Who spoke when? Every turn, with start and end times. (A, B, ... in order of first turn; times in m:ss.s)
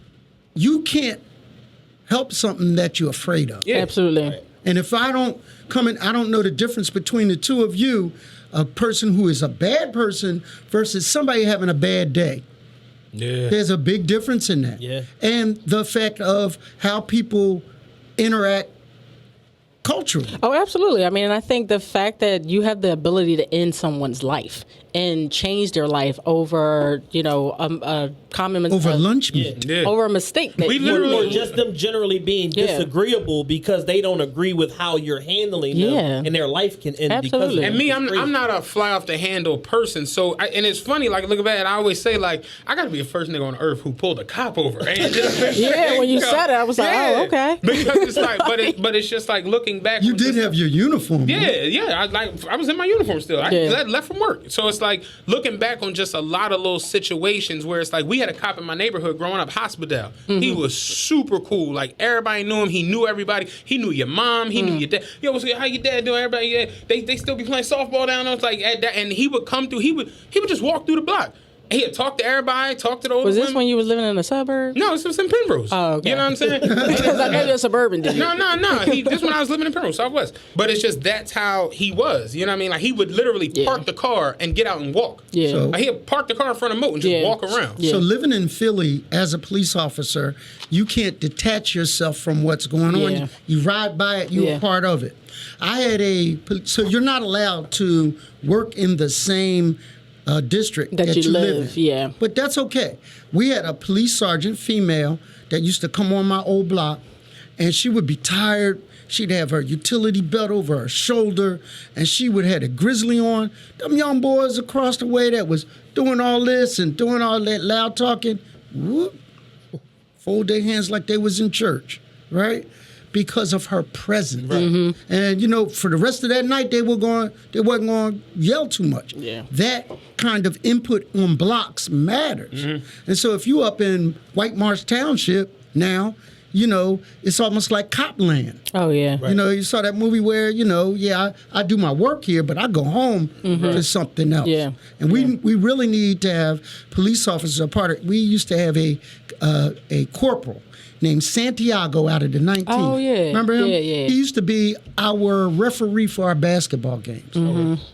0:00.6-0:01.2 A
0:02.1-0:03.7 A
0:03.6-0:03.9 B
0:03.7-0:04.4 C
0:04.6-0:12.4 A
0:13.1-0:13.6 B
0:13.5-0:17.6 A
0:14.8-0:15.1 D
0:18.2-0:18.7 A
0:19.8-0:20.4 A
0:20.4-0:29.1 C
0:28.7-0:29.6 A
0:29.3-0:29.6 D
0:29.6-0:30.0 B
0:29.8-0:31.4 C
0:30.6-0:31.6 B
0:30.8-0:38.3 D
0:32.5-0:32.9 C
0:35.7-0:36.3 C
0:37.1-0:37.8 C
0:37.6-0:50.6 B
0:45.5-0:48.7 C
0:50.0-0:51.5 A
0:51.2-1:13.6 B
0:53.4-0:53.8 C
1:00.3-1:00.6 C
1:04.5-1:04.8 C
1:13.2-1:14.8 C
1:14.7-1:17.5 B
1:15.7-1:19.2 C
1:16.6-1:17.5 A
1:18.0-1:27.8 B
1:23.5-1:23.8 C
1:25.3-1:25.7 C
1:25.4-1:25.8 A
1:27.0-1:28.0 C
1:27.8-1:47.0 A
1:32.9-1:33.3 C
1:34.3-1:34.6 C
1:40.9-1:42.1 C
1:47.6-1:59.2 A
2:00.2-2:18.6 A
2:04.4-2:04.7 B
2:04.5-2:05.0 C
2:09.1-2:09.4 C
2:12.5-2:12.8 B
2:18.7-2:19.2 C
2:19.2-2:37.5 A
2:23.4-2:23.9 C
2:24.4-2:25.3 C
2:32.6-2:34.2 C
2:37.4-2:37.8 C
2:37.4-2:37.7 D